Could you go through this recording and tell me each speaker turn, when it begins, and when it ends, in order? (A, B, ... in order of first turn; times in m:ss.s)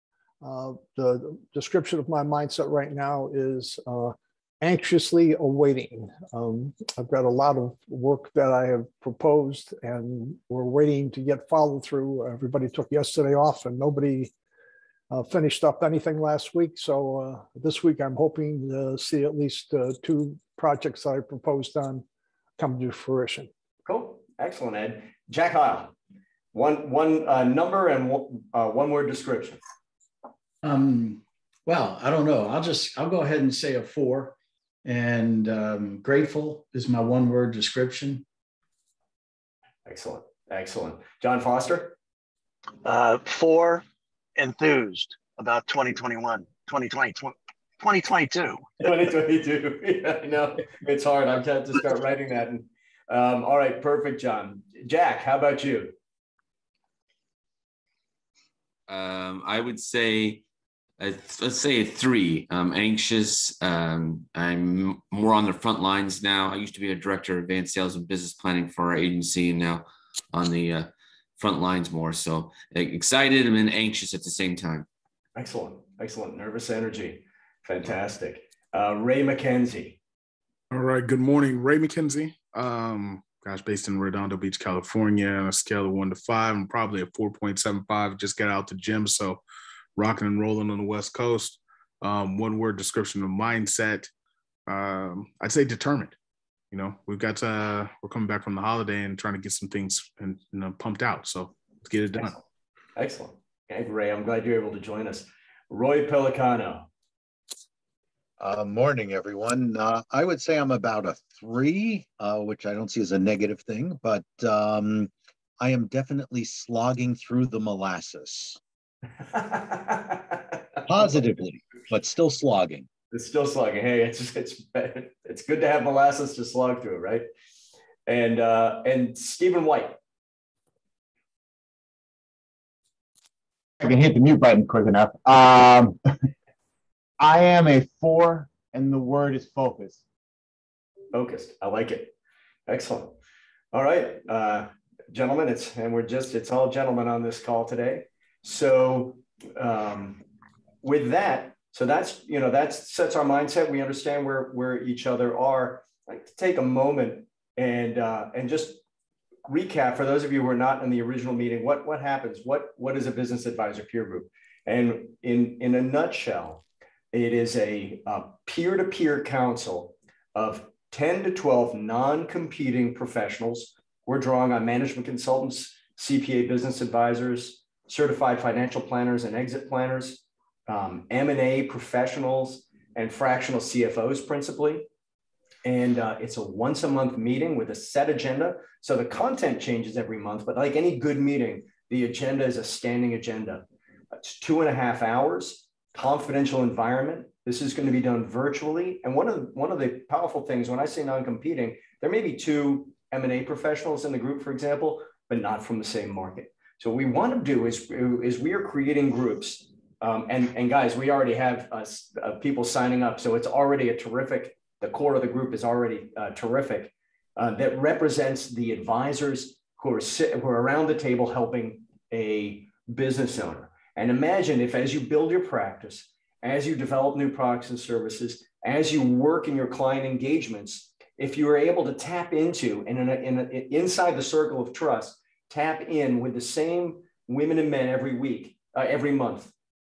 0:00.4-0:14.3 A
0:15.1-0:22.0 A
0:22.6-0:23.5 A
0:23.8-0:25.9 B
0:26.5-0:29.6 B
0:30.6-0:38.2 C
0:39.8-0:42.0 B
0:42.8-0:43.8 D
0:44.4-0:48.7 D
0:48.8-0:55.9 B
0:58.9-1:00.4 E
1:01.0-1:14.8 E
1:15.3-1:20.0 B
1:20.7-1:29.4 F
1:30.0-1:34.1 F
1:34.7-1:36.2 F
1:36.7-1:42.4 F
1:43.0-1:46.9 B
1:48.4-1:58.6 G
1:59.3-2:01.2 B
2:00.9-2:02.9 G
2:03.1-2:07.3 B
2:08.1-2:10.0 B
2:13.8-2:16.0 H
2:17.2-2:20.0 H
2:21.1-2:22.1 B
2:22.7-2:23.2 B
2:23.7-2:30.2 B
2:30.8-2:38.8 B
2:39.4-3:04.9 B
3:05.6-3:13.6 B
3:14.2-3:59.5 B